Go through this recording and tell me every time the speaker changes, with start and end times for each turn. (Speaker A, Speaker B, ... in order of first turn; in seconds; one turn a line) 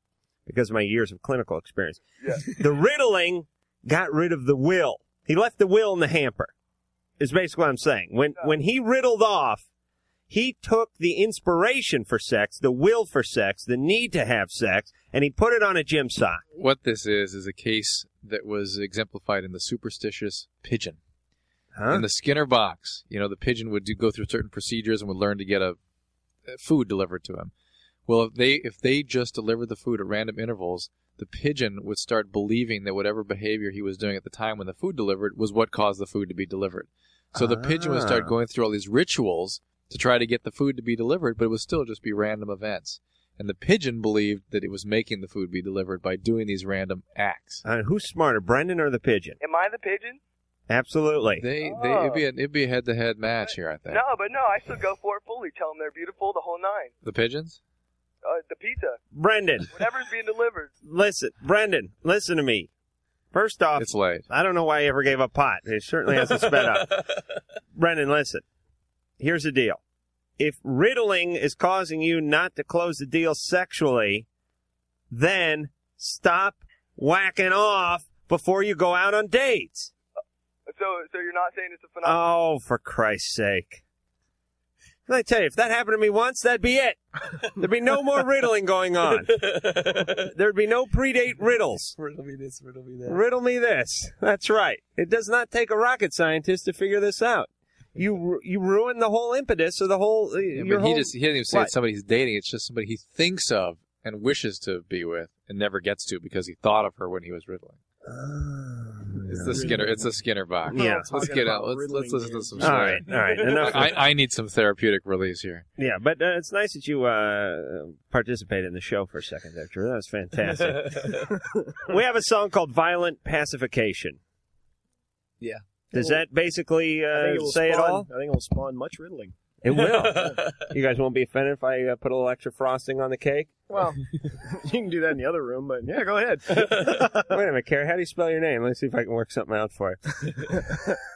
Speaker A: 0.5-2.0
Speaker A: 2.5-6.5
Speaker A: 7.2-9.6
Speaker A: 10.3-16.4
Speaker B: 16.6-21.0
Speaker A: 21.8-22.0
Speaker B: 21.9-25.8
Speaker B: 26.5-27.5
Speaker B: 28.1-47.6
Speaker A: 37.4-38.3
Speaker A: 47.6-49.4
Speaker C: 49.4-50.2
Speaker A: 50.7-51.4
Speaker B: 51.4-54.1
Speaker C: 51.6-52.2
Speaker C: 53.3-56.9
Speaker B: 57.0-57.6
Speaker C: 58.2-59.0
Speaker A: 59.1-59.7
Speaker C: 59.7-60.7
Speaker A: 60.8-62.7
Speaker A: 63.3-66.9
Speaker B: 63.8-64.3
Speaker A: 67.8-68.4
Speaker A: 69.2-69.8
Speaker A: 70.4-74.3
Speaker A: 75.1-79.9
Speaker C: 80.7-82.3
Speaker A: 82.0-83.8
Speaker A: 85.1-87.0
Speaker A: 87.6-89.3
Speaker D: 89.2-90.2
Speaker A: 90.3-92.0
Speaker D: 92.0-93.2
Speaker A: 93.1-101.7
Speaker B: 100.5-107.8
Speaker A: 108.1-109.7
Speaker B: 109.3-115.7
Speaker E: 109.5-110.1
Speaker E: 110.7-113.3
Speaker A: 110.7-111.1
Speaker A: 112.6-113.9
Speaker A: 115.8-121.0
Speaker D: 120.6-121.1
Speaker A: 121.9-124.2
Speaker E: 125.4-126.2
Speaker A: 125.9-128.1
Speaker E: 127.1-129.3
Speaker A: 129.6-133.5
Speaker D: 130.0-130.3
Speaker E: 133.7-136.9
Speaker A: 136.6-140.0